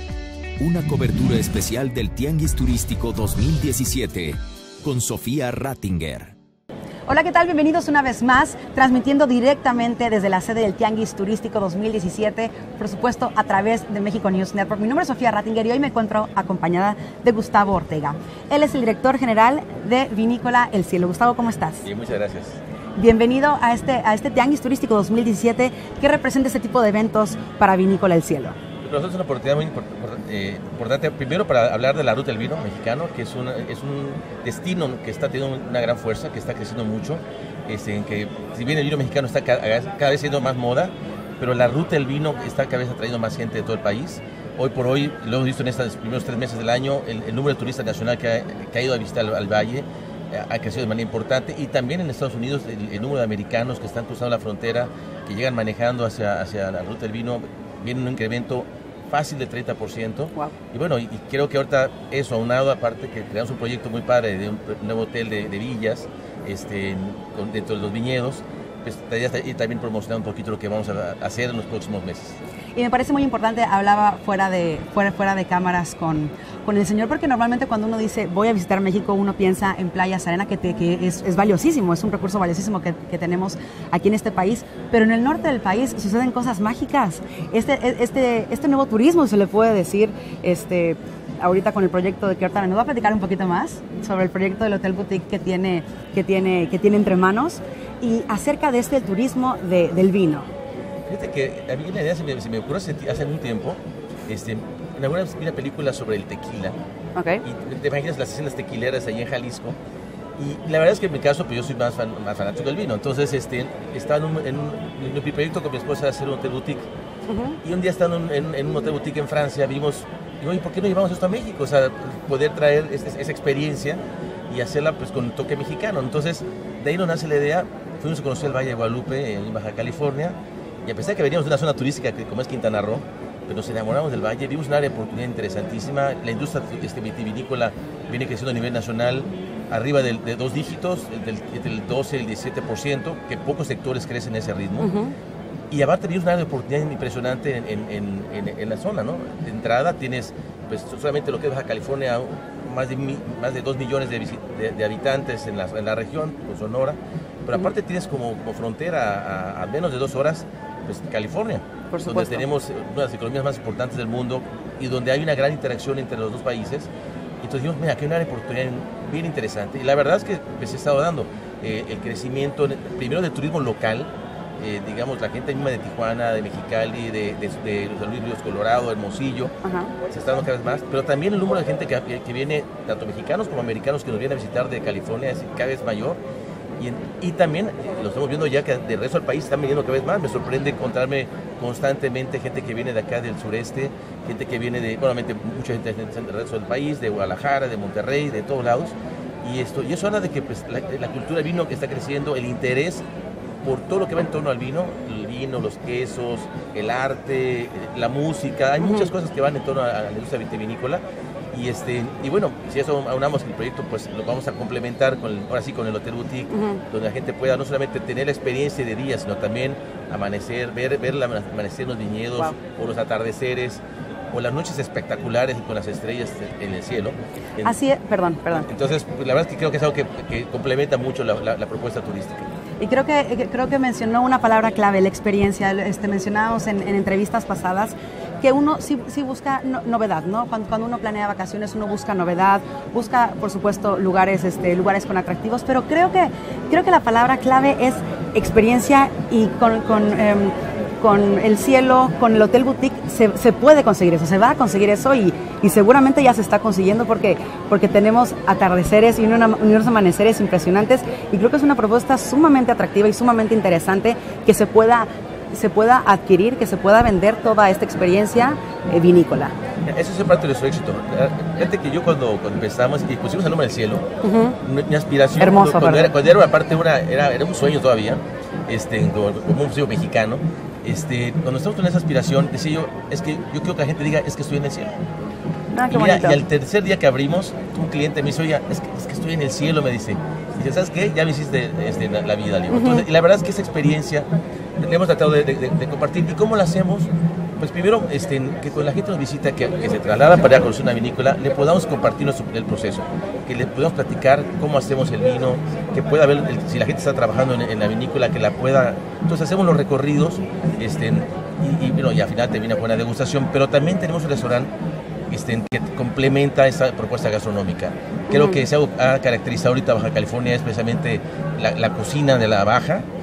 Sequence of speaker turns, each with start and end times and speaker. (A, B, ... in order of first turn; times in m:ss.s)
0:00.6-0:06.3 A
0:07.1-0:21.9 B
0:21.8-0:22.6 C
0:23.0-0:28.6 B
0:28.8-1:12.4 C
1:12.8-1:40.5 B
1:41.1-1:46.8 C
1:47.2-1:47.4 B
1:47.4-1:49.8 C
1:50.4-1:56.9 C
1:57.3-1:57.6 B
1:57.6-2:24.9 C
2:24.8-2:25.1 B
2:25.7-2:46.9 C
2:41.9-2:42.4 B
2:47.4-2:59.5 C
2:59.6-2:59.9 B
3:00.1-3:06.2 C
3:06.8-3:23.0 C
3:23.6-3:47.8 C
3:28.8-3:29.1 B
3:36.5-3:36.8 B
3:47.6-3:48.7 B
3:48.6-3:52.5 C
3:52.8-4:29.6 B
4:29.9-4:34.1 C
4:34.2-4:34.6 B
4:34.6-4:44.9 C
4:35.4-4:36.1 B
4:45.7-4:46.4 B
4:45.9-4:54.3 C
4:52.7-4:53.0 B
4:54.8-5:14.7 C
5:15.3-5:23.1 C
5:18.3-5:18.6 B